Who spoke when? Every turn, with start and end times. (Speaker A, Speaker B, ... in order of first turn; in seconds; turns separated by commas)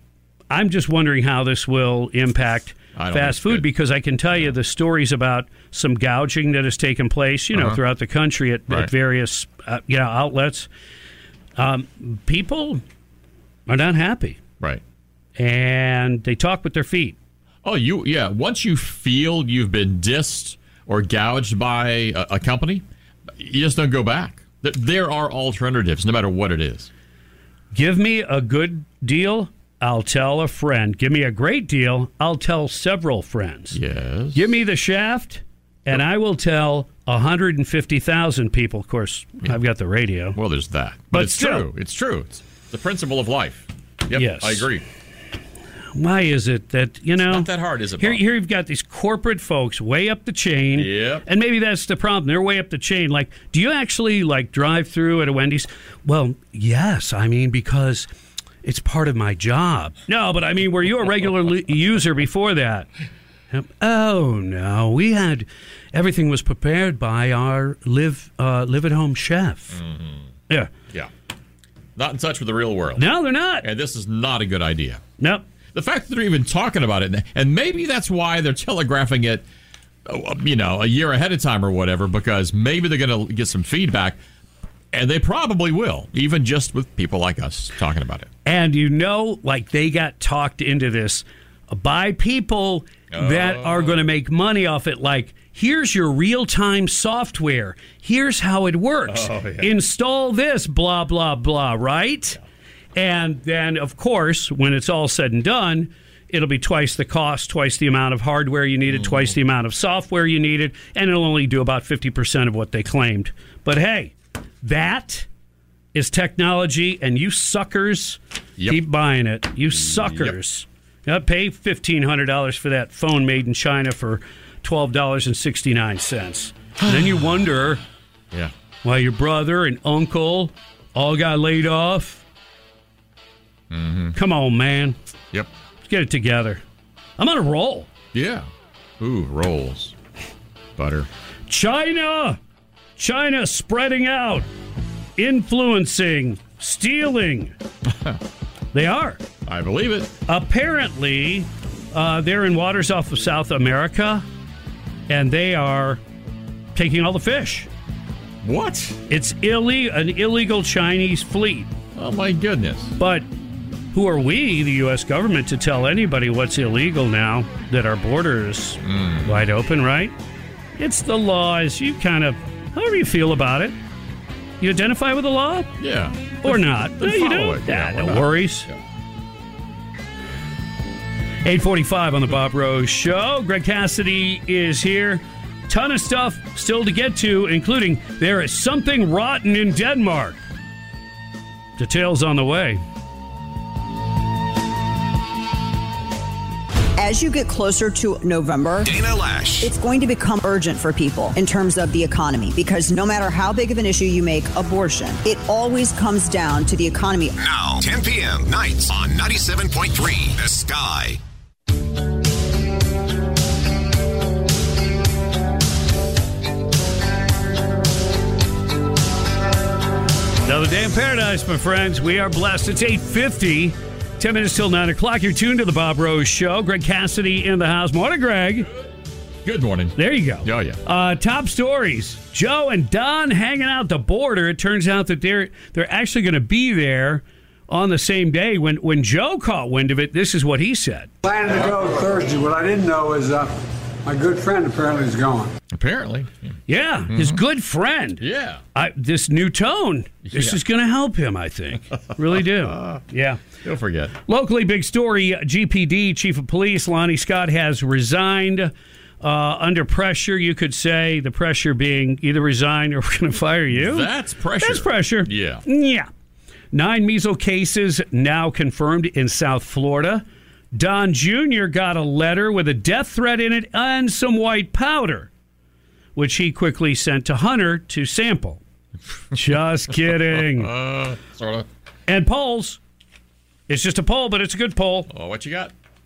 Speaker A: 0.5-10.7, Speaker B: 3.0-3.7, Speaker B: 7.5-7.8, Speaker A: 11.6-12.8, Speaker A: 13.7-14.4, Speaker A: 15.4-17.2, Speaker B: 17.6-22.8, Speaker B: 23.4-26.9, Speaker A: 27.7-33.8, Speaker B: 33.7-34.5, Speaker A: 34.3-40.4, Speaker B: 40.4-44.8, Speaker A: 41.1-41.7, Speaker A: 44.1-44.7, Speaker A: 46.0-58.1, Speaker B: 47.2-48.2, Speaker B: 50.8-51.2, Speaker A: 58.6-62.9, Speaker A: 63.5-69.8, Speaker B: 69.7-70.3, Speaker B: 72.0-73.1, Speaker A: 73.0-73.7, Speaker B: 73.6-75.0, Speaker A: 75.2-75.5, Speaker B: 75.7-79.4, Speaker B: 80.1-84.2, Speaker B: 84.9-88.3, Speaker A: 88.5-102.4, Speaker B: 93.1-94.1, Speaker B: 99.1-99.7, Speaker A: 103.0-115.3, Speaker B: 108.9-109.4, Speaker A: 115.9-127.8, Speaker B: 119.7-120.4, Speaker B: 126.8-127.3, Speaker A: 128.8-132.2, Speaker B: 133.7-134.2, Speaker A: 134.1-135.0, Speaker A: 135.8-136.6, Speaker A: 137.2-137.9, Speaker B: 138.1-138.5, Speaker B: 139.0-139.9, Speaker B: 140.8-141.1, Speaker A: 141.5-142.4, Speaker A: 143.0-144.5, Speaker A: 145.2-147.5, Speaker B: 147.9-148.2, Speaker A: 148.7-149.2, Speaker B: 149.5-150.1, Speaker A: 150.3-154.2, Speaker A: 155.1-156.0, Speaker A: 156.8-157.7, Speaker B: 158.4-159.0, Speaker A: 159.1-161.7, Speaker B: 161.9-162.9, Speaker A: 163.0-163.3, Speaker A: 163.9-170.1, Speaker B: 168.8-169.4, Speaker A: 170.8-173.8, Speaker A: 174.6-175.7, Speaker B: 175.8-178.8, Speaker A: 176.4-178.7, Speaker A: 181.4-190.4, Speaker A: 191.8-192.8, Speaker C: 197.0-198.9, Speaker D: 198.8-199.7, Speaker C: 199.6-207.3, Speaker D: 207.4-211.2, Speaker A: 220.5-228.7, Speaker B: 229.4-230.8, Speaker A: 230.0-241.1, Speaker E: 241.2-243.5, Speaker B: 241.5-241.8, Speaker E: 244.1-245.5, Speaker B: 245.7-246.6, Speaker A: 246.7-248.2, Speaker B: 247.1-247.4, Speaker B: 248.2-248.6, Speaker A: 248.8-253.4, Speaker B: 250.3-250.6, Speaker B: 252.1-253.0, Speaker B: 253.6-254.1, Speaker A: 254.3-264.1, Speaker B: 263.7-265.6, Speaker A: 264.6-266.1, Speaker A: 266.7-275.3, Speaker A: 276.2-278.6, Speaker A: 279.3-280.7, Speaker B: 280.3-281.7, Speaker A: 282.1-282.8, Speaker A: 283.7-285.1, Speaker B: 285.1-285.7